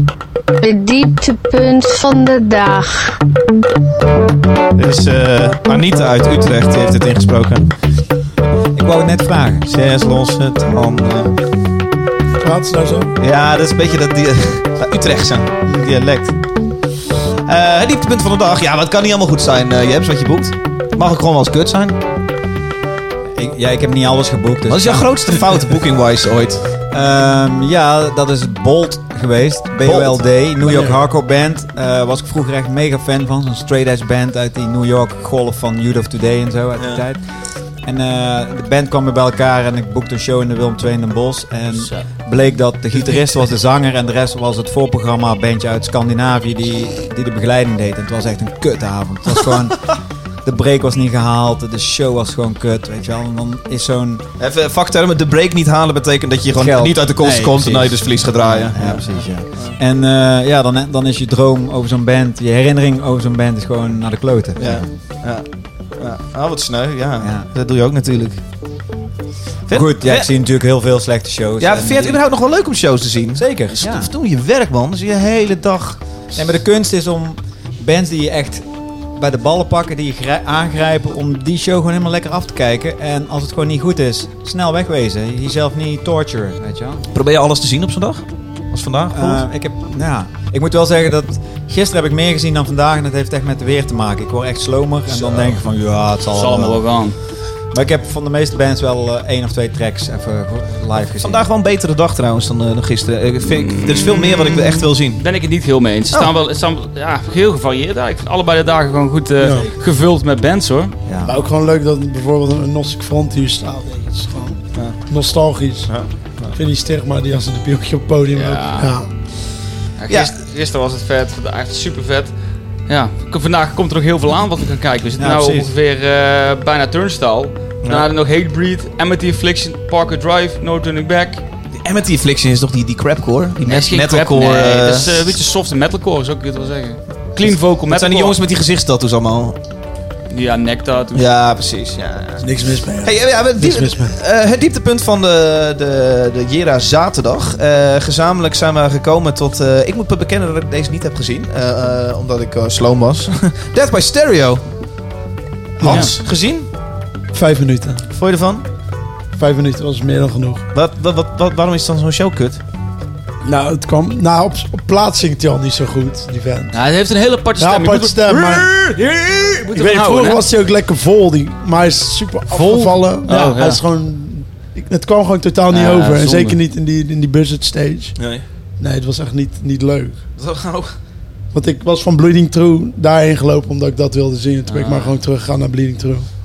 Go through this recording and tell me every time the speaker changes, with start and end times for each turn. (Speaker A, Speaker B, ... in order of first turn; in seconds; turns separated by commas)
Speaker A: 0.6-3.1, Speaker B: 4.8-7.7, Speaker C: 8.7-9.7, Speaker B: 9.7-11.3, Speaker D: 12.4-13.1, Speaker B: 13.2-16.4, Speaker B: 17.4-22.0, Speaker C: 23.3-25.5, Speaker B: 24.7-26.6, Speaker C: 26.9-37.2, Speaker B: 29.8-30.2, Speaker D: 30.6-31.0, Speaker C: 37.8-54.2, Speaker E: 41.8-42.0, Speaker B: 54.4-59.8, Speaker C: 56.5-64.9, Speaker B: 64.6-65.5, Speaker B: 66.0-68.4, Speaker C: 67.2-67.5, Speaker B: 69.7-70.3, Speaker C: 69.7-72.2, Speaker B: 71.6-76.0, Speaker C: 73.3-74.1, Speaker C: 76.3-87.0, Speaker B: 87.1-89.4, Speaker C: 89.1-96.8, Speaker E: 96.3-97.2, Speaker C: 97.7-101.5, Speaker B: 101.2-105.2, Speaker E: 103.4-110.9, Speaker D: 109.4-109.7, Speaker C: 111.1-111.4, Speaker D: 111.2-116.0, Speaker B: 115.9-116.5, Speaker D: 116.5-119.1, Speaker E: 118.3-118.9, Speaker E: 120.0-122.3, Speaker E: 122.9-131.4, Speaker C: 125.2-125.7, Speaker B: 131.8-135.3, Speaker E: 133.6-138.3, Speaker B: 137.4-139.6, Speaker E: 140.3-141.2, Speaker B: 141.1-154.6, Speaker D: 142.4-144.1, Speaker B: 155.8-156.7, Speaker D: 155.8-156.1, Speaker E: 155.8-156.1, Speaker D: 157.3-158.0, Speaker B: 158.1-158.6, Speaker D: 159.3-160.6, Speaker B: 160.7-162.6, Speaker D: 163.4-166.8, Speaker E: 166.7-170.4, Speaker D: 167.6-168.7, Speaker D: 169.7-178.2, Speaker E: 172.5-173.8, Speaker E: 175.7-176.6, Speaker B: 178.2-178.4, Speaker D: 178.8-180.2, Speaker B: 180.4-180.9, Speaker D: 181.5-186.3, Speaker E: 184.7-185.2